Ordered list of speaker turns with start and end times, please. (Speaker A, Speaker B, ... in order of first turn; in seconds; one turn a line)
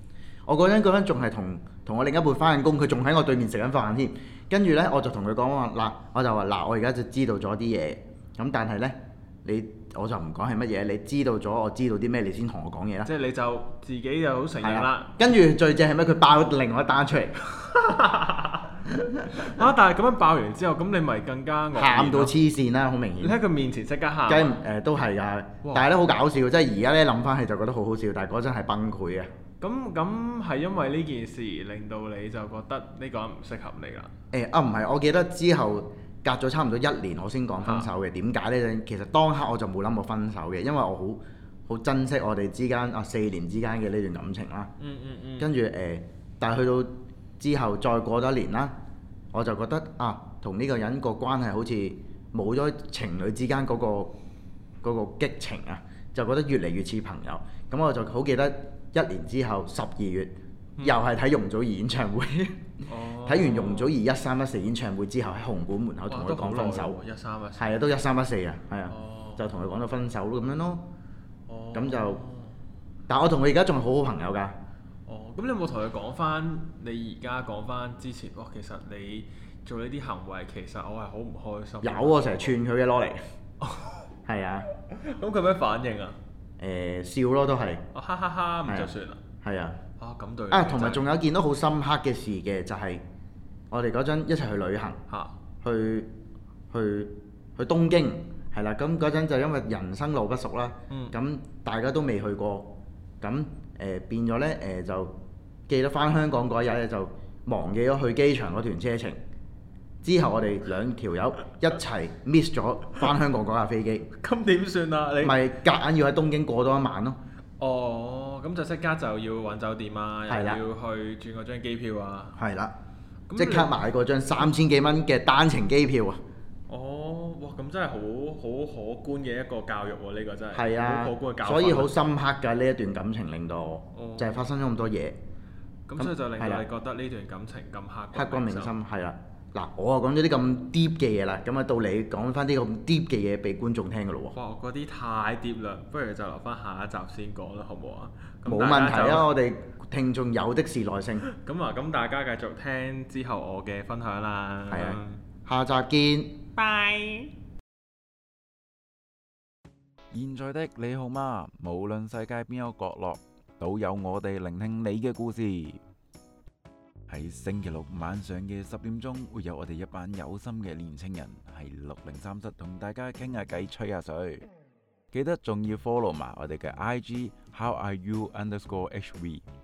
Speaker A: 0.5-13.1
Speaker B: 13.0-15.2
Speaker A: 14.6-17.3
Speaker B: 17.6-22.3
Speaker A: 21.7-23.4
Speaker B: 23.2-24.6
Speaker A: 24.3-29.3
Speaker B: 25.6-25.9
Speaker B: 29.6-34.1
Speaker A: 34.3-44.7
Speaker B: 37.6-37.9
Speaker B: 44.8-45.5
Speaker A: 45.4-48.7
Speaker A: 49.3-54.1
Speaker A: 54.8-67.0
Speaker B: 62.9-63.9
Speaker B: 66.1-67.7
Speaker A: 67.6-70.9
Speaker B: 68.9-69.4
Speaker B: 71.5-72.5
Speaker A: 71.7-72.2
Speaker A: 73.1-74.5
Speaker B: 75.0-82.5
Speaker A: 81.8-83.2
Speaker B: 83.6-84.0
Speaker A: 84.2-84.7
Speaker B: 84.7-86.2
Speaker A: 86.6-87.8
Speaker B: 87.9-89.2
Speaker A: 88.7-88.9
Speaker A: 89.4-89.8
Speaker B: 90.0-91.0
Speaker A: 90.5-93.0
Speaker A: 93.7-95.0
Speaker B: 95.1-95.3
Speaker A: 95.6-96.1
Speaker A: 96.7-105.1
Speaker B: 100.9-101.2
Speaker A: 105.7-109.2
Speaker A: 110.0-114.1
Speaker B: 114.2-115.4
Speaker A: 115.2-117.2
Speaker B: 117.6-122.4
Speaker A: 120.3-120.6
Speaker A: 122.3-122.7
Speaker B: 123.3-123.8
Speaker A: 123.3-126.2
Speaker B: 126.7-131.9
Speaker A: 130.5-135.2
Speaker B: 133.9-134.4
Speaker B: 135.9-138.8
Speaker A: 136.0-136.6
Speaker A: 138.1-144.3
Speaker B: 144.3-149.3
Speaker A: 148.4-151.2
Speaker B: 151.2-155.2
Speaker A: 154.7-156.4
Speaker B: 156.6-157.3
Speaker C: 160.1-165.8
Speaker C: 167.1-174.4
Speaker C: 175.1-179.4